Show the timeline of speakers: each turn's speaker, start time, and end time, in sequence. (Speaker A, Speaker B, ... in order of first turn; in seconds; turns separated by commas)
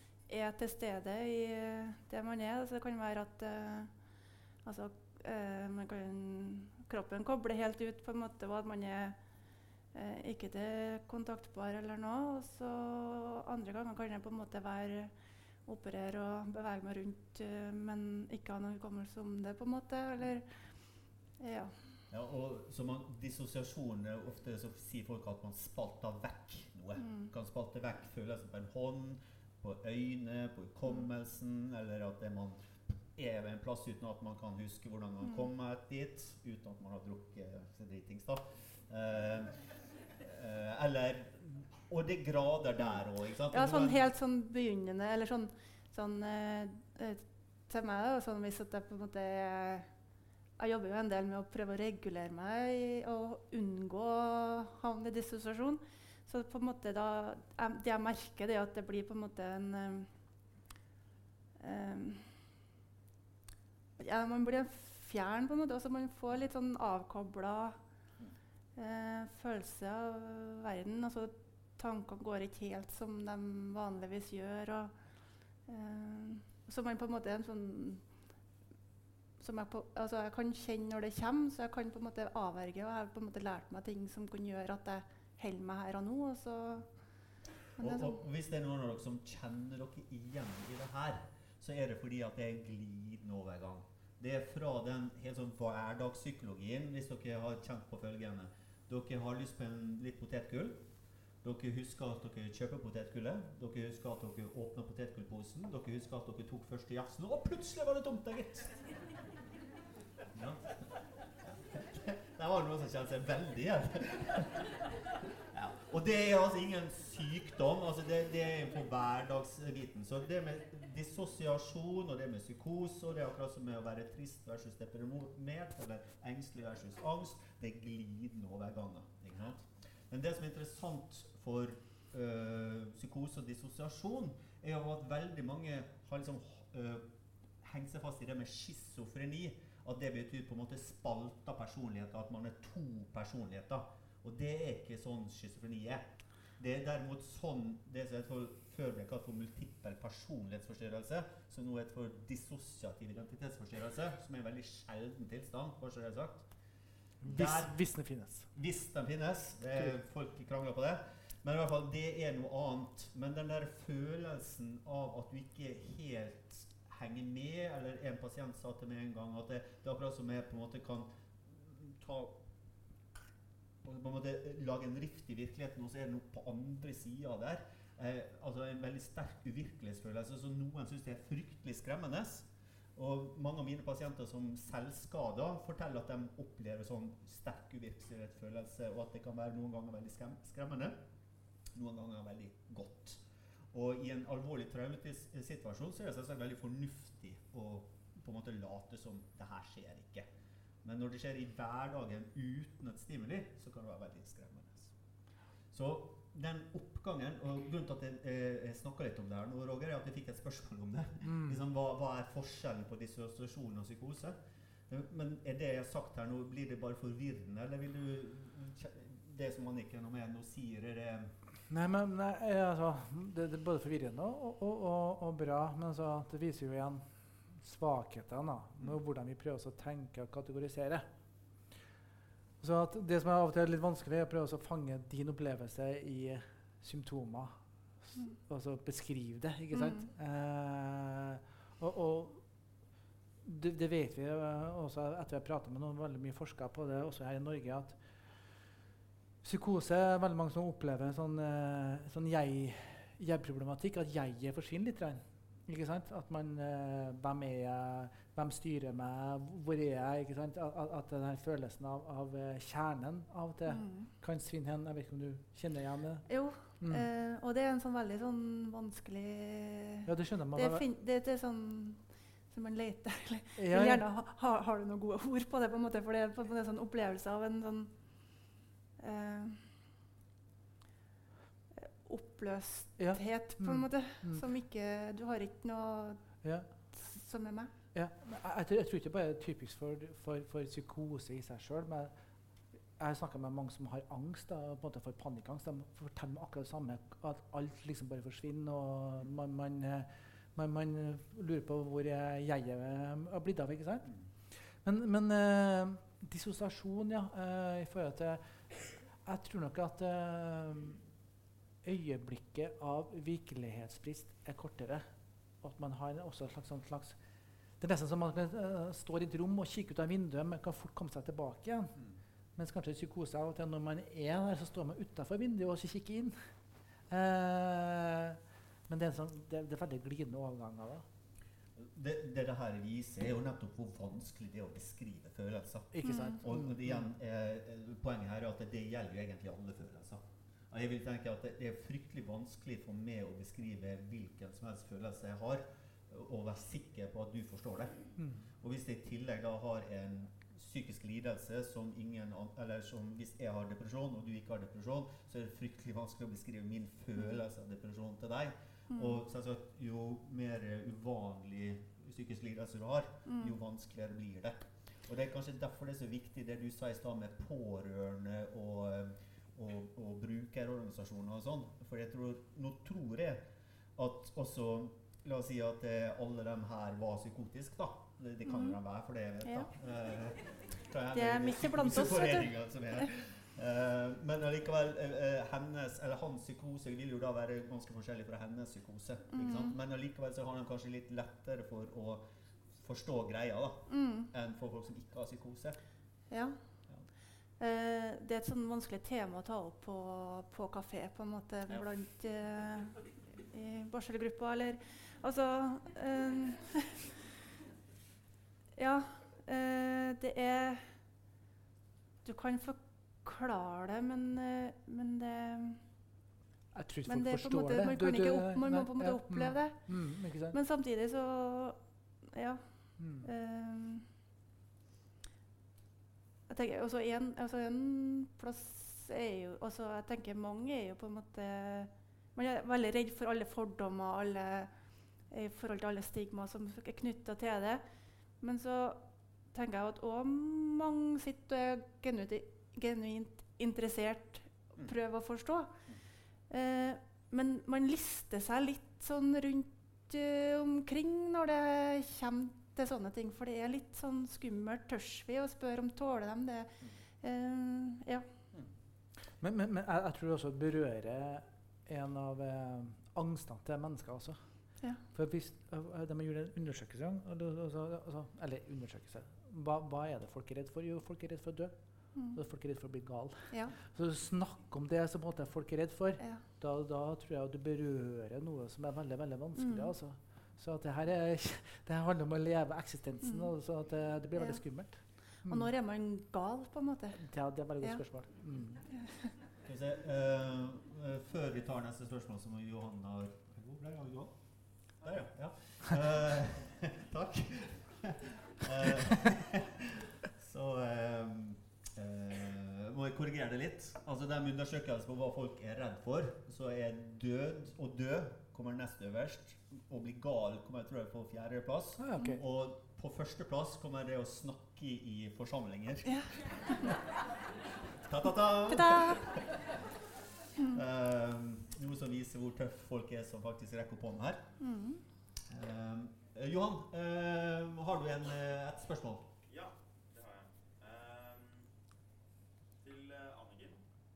Speaker A: 0.3-3.9, Speaker A: 4.6-9.2, Speaker A: 9.9-15.1, Speaker A: 15.7-20.5, Speaker A: 21.4-21.7, Speaker B: 22.1-44.1, Speaker A: 27.0-27.3, Speaker A: 43.5-49.9, Speaker A: 50.6-60.1, Speaker A: 61.6-62.4, Speaker A: 64.0-67.8, Speaker A: 68.8-74.9, Speaker A: 75.7-78.1, Speaker A: 79.4-86.9, Speaker A: 87.8-88.2, Speaker B: 87.8-100.8, Speaker B: 101.4-108.8, Speaker B: 110.3-110.9, Speaker B: 111.4-114.8, Speaker B: 115.5-137.1, Speaker B: 137.6-156.4, Speaker C: 157.2-158.5, Speaker B: 157.2-172.4, Speaker B: 173.8-191.0, Speaker B: 191.7-200.3, Speaker B: 200.8-204.9, Speaker B: 205.7-214.4, Speaker C: 211.2-211.6, Speaker B: 214.9-221.3, Speaker C: 221.7-231.1, Speaker C: 232.6-242.7, Speaker A: 239.7-240.1, Speaker C: 243.4-248.0, Speaker C: 249.4-267.1, Speaker A: 263.7-264.1, Speaker A: 266.3-278.5, Speaker C: 270.1-270.9, Speaker C: 273.6-274.0, Speaker A: 279.0-279.7, Speaker A: 281.7-287.7, Speaker C: 283.0-284.4, Speaker C: 287.9-292.1, Speaker C: 293.0-311.0, Speaker C: 311.8-315.1, Speaker C: 315.6-317.2, Speaker C: 317.8-322.0, Speaker C: 322.6-326.5, Speaker C: 327.1-331.0, Speaker B: 331.8-395.8, Speaker C: 335.9-337.0, Speaker A: 336.0-336.4, Speaker C: 348.2-348.4, Speaker A: 358.9-359.2, Speaker A: 363.3-363.5, Speaker A: 378.4-378.8, Speaker A: 379.4-379.7, Speaker A: 381.1-383.1, Speaker A: 389.3-389.8, Speaker A: 393.9-394.3, Speaker A: 396.3-396.8, Speaker A: 397.6-407.1, Speaker A: 408.8-410.9, Speaker A: 412.2-415.8, Speaker C: 416.7-420.6, Speaker A: 417.1-424.1, Speaker C: 423.0-423.3, Speaker A: 426.5-434.7, Speaker A: 435.3-437.8, Speaker A: 438.4-445.7, Speaker A: 446.5-458.2, Speaker C: 459.4-485.7, Speaker A: 479.6-479.9, Speaker A: 483.2-483.5, Speaker A: 484.4-487.2, Speaker C: 487.2-488.8, Speaker A: 488.9-489.3, Speaker B: 489.6-517.0, Speaker D: 495.0-495.3, Speaker C: 512.0-512.4, Speaker A: 516.1-516.9, Speaker B: 518.0-519.7, Speaker A: 518.7-519.2, Speaker B: 520.7-524.5, Speaker A: 524.6-525.0, Speaker B: 525.5-529.3, Speaker D: 529.5-531.7, Speaker D: 532.8-533.8